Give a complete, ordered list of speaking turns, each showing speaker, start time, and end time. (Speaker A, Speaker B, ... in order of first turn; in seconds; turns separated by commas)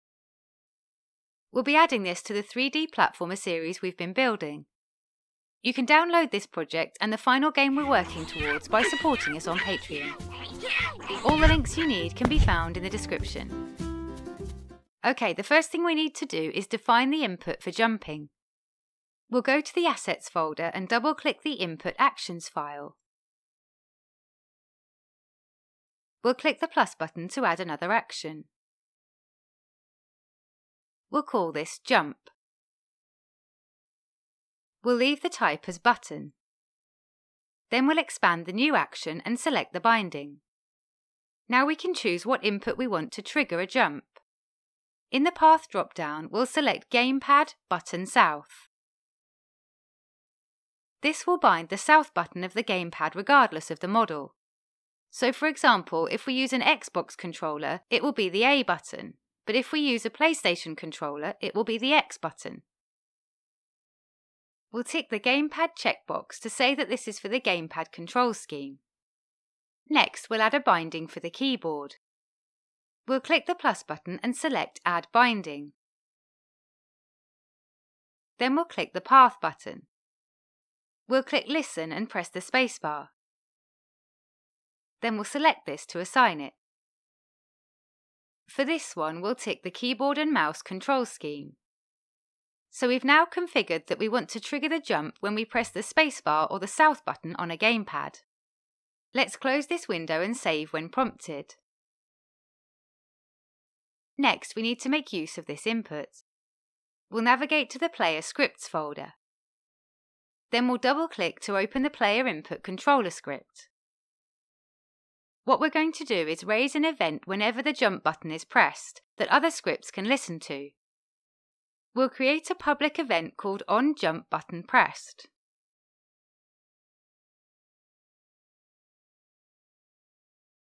Speaker A: 1.5-4.7, Speaker A: 5.6-10.2, Speaker A: 11.2-13.6, Speaker A: 15.0-18.3, Speaker A: 19.3-23.0, Speaker A: 26.2-28.5, Speaker A: 31.1-32.3, Speaker A: 34.8-36.3, Speaker A: 37.7-40.4, Speaker A: 41.5-44.2, Speaker A: 45.1-48.7, Speaker A: 51.0-54.3, Speaker A: 55.1-62.6, Speaker A: 64.7-68.8, Speaker A: 69.9-72.0, Speaker A: 73.1-75.7, Speaker A: 78.4-79.9, Speaker A: 81.1-83.1, Speaker A: 85.0-86.5, Speaker A: 88.5-91.6, Speaker A: 92.7-98.2, Speaker A: 99.1-101.6, Speaker A: 104.2-106.2, Speaker A: 107.1-109.2, Speaker A: 110.5-113.7, Speaker A: 115.5-120.7, Speaker A: 122.0-125.3